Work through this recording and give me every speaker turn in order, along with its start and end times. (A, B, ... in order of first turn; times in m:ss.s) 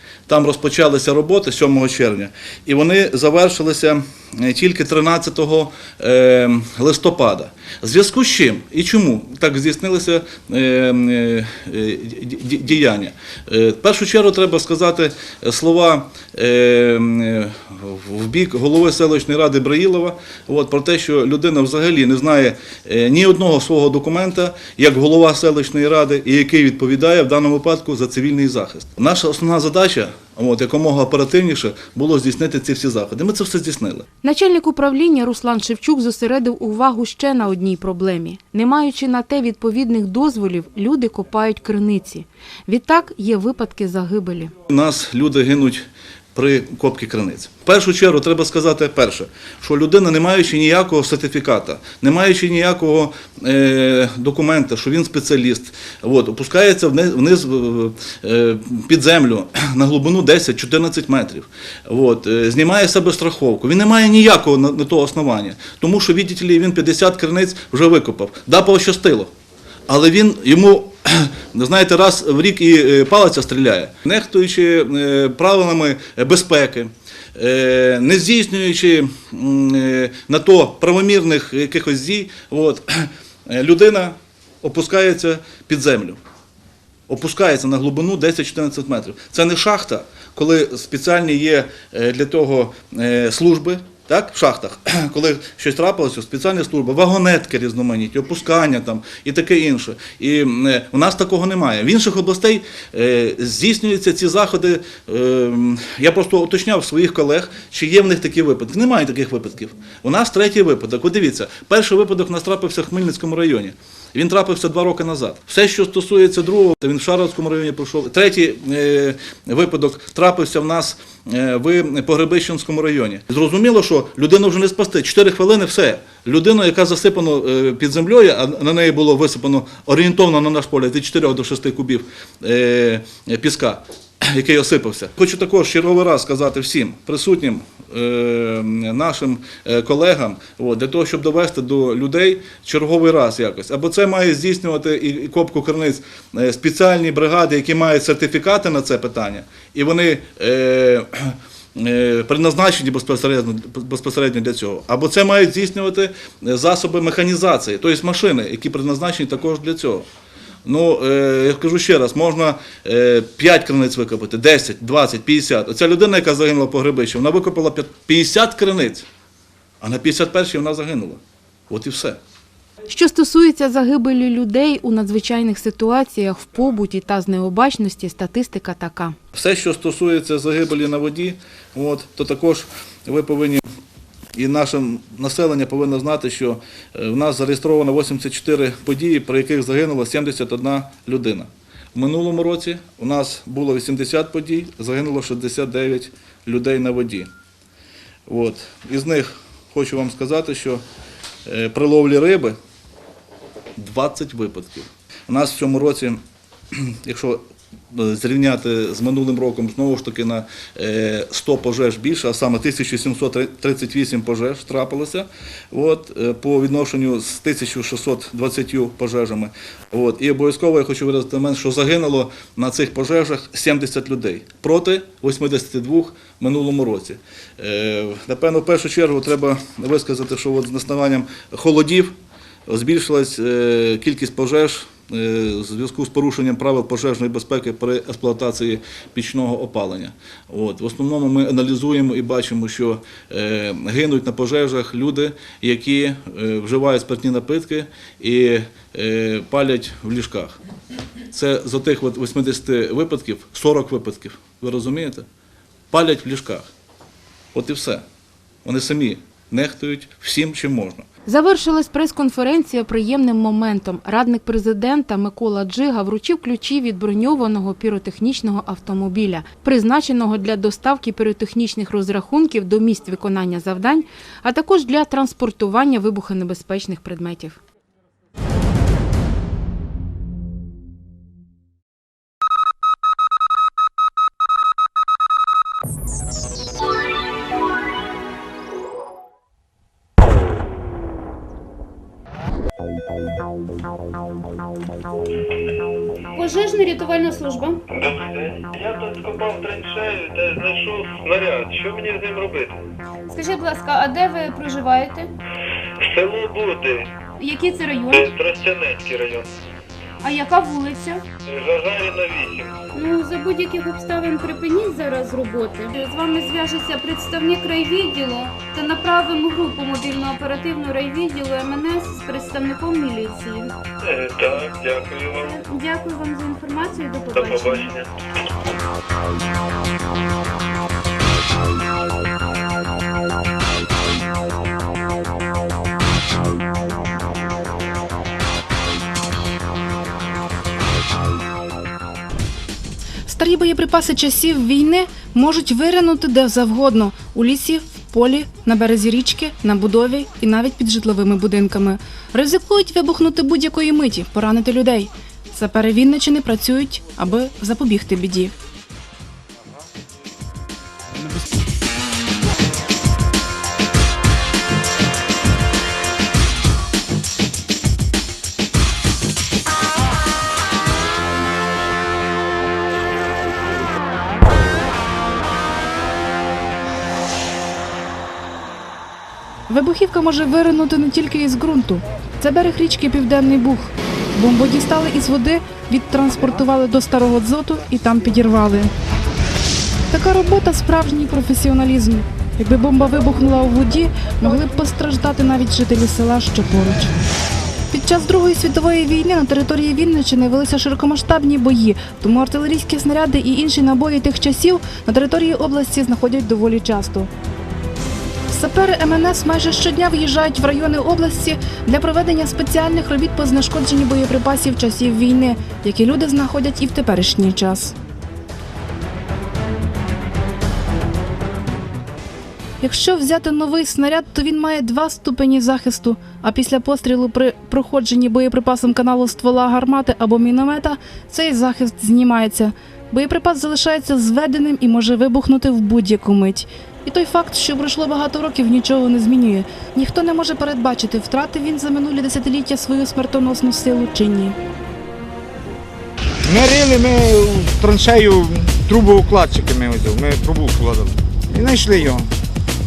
0:00.3-0:34.0 A
0:34.2-0:44.5 B
0:44.7-1:09.3 A
1:09.9-1:26.2 A
1:27.1-2:40.1 A
2:40.6-2:49.1 A
2:49.8-2:52.2 A
2:52.9-2:59.2 B
2:59.3-3:03.6 A
3:04.3-3:17.3 A
3:18.3-3:20.8 A
3:21.4-3:22.6 A
3:23.8-3:26.2 A
3:26.7-3:52.1 A
3:52.7-4:10.6 A
4:11.3-4:15.3 A
4:15.9-4:16.7 A
4:17.5-4:18.0 A
4:18.6-4:21.0 A
4:21.2-4:37.6 B
4:56.3-4:57.8 C
4:57.9-5:02.8 D
5:03.3-5:05.3 C
5:06.0-5:07.1 D
5:07.4-5:08.3 C
5:08.1-5:09.5 D
5:10.2-5:11.2 C
5:11.5-5:12.8 D
5:12.9-5:23.7 C
5:24.0-5:25.6 D
5:25.4-5:27.9 C
5:27.3-5:28.1 D
5:43.2-5:58.5 E
6:19.7-6:28.9 E
6:30.1-6:37.1 E
6:37.9-6:47.3 E
6:48.5-6:57.9 E
7:02.8-7:24.6 E
7:26.5-7:32.3 F